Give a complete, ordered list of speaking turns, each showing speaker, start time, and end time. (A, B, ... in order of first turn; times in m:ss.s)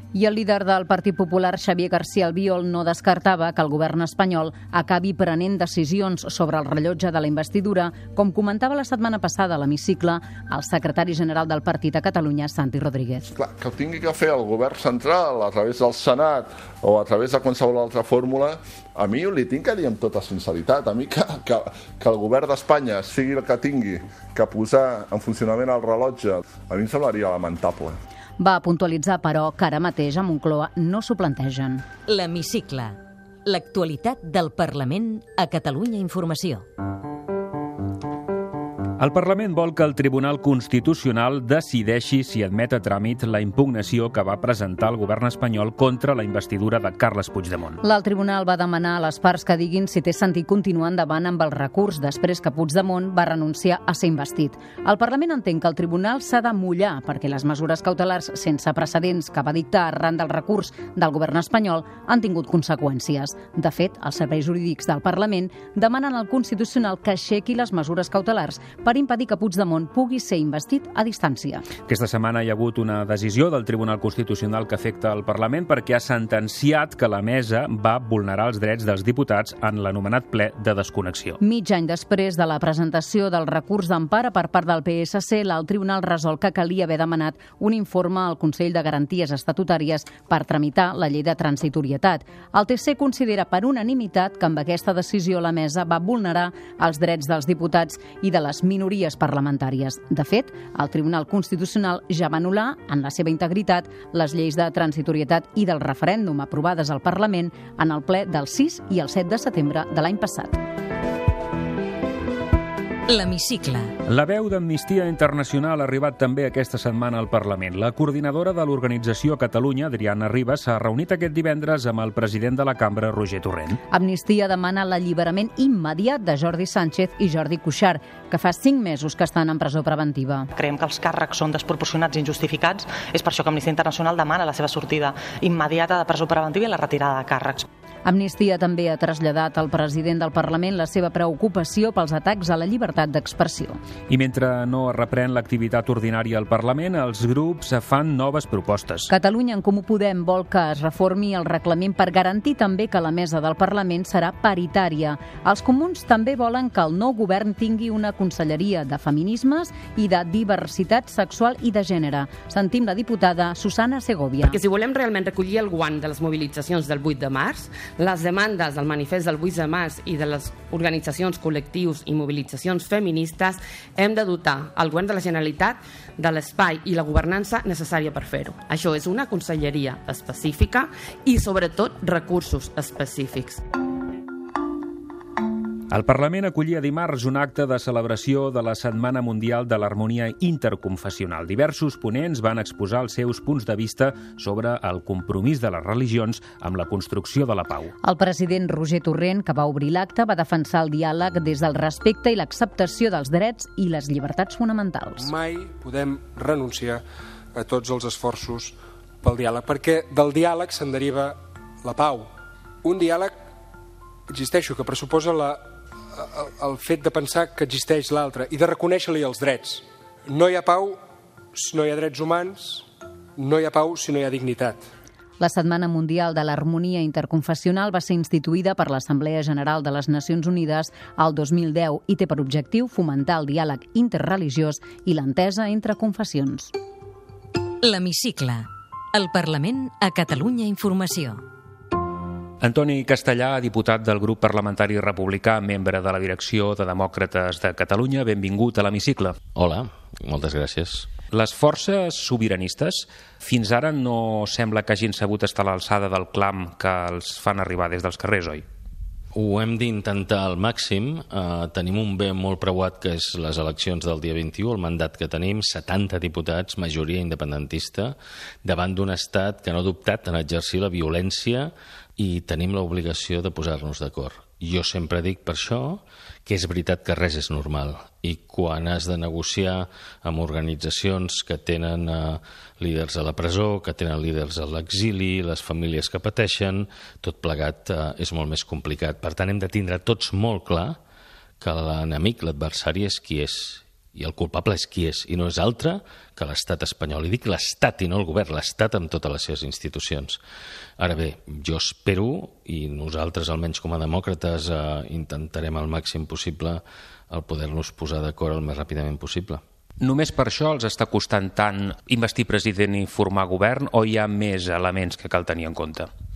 0:00.1-0:13.3 A
0:13.3-0:28.0 B
0:28.4-0:31.8 A
0:32.1-0:36.6 C
0:39.0-0:47.8 D
0:47.8-1:11.7 A
1:11.8-1:21.4 D
1:21.4-1:50.6 A
1:53.1-1:53.9 C
1:54.1-2:03.8 D
2:03.9-2:10.5 A
2:10.5-2:17.6 E
2:18.0-2:23.8 A
2:24.1-2:29.1 D
2:29.1-2:44.6 A
2:44.4-3:03.6 F
3:05.9-3:17.9 D
3:18.0-3:25.3 A
3:25.2-3:32.3 G
3:32.8-3:33.4 G
3:34.3-3:41.0 G
3:41.5-3:44.9 G
3:45.4-3:56.7 A
3:57.8-4:01.4 C
4:02.6-4:09.4 D
4:09.6-4:11.1 H
4:11.3-4:18.6 D
4:19.3-4:51.0 H
4:51.6-5:00.4 H
5:01.0-5:09.6 H
5:10.0-5:16.1 D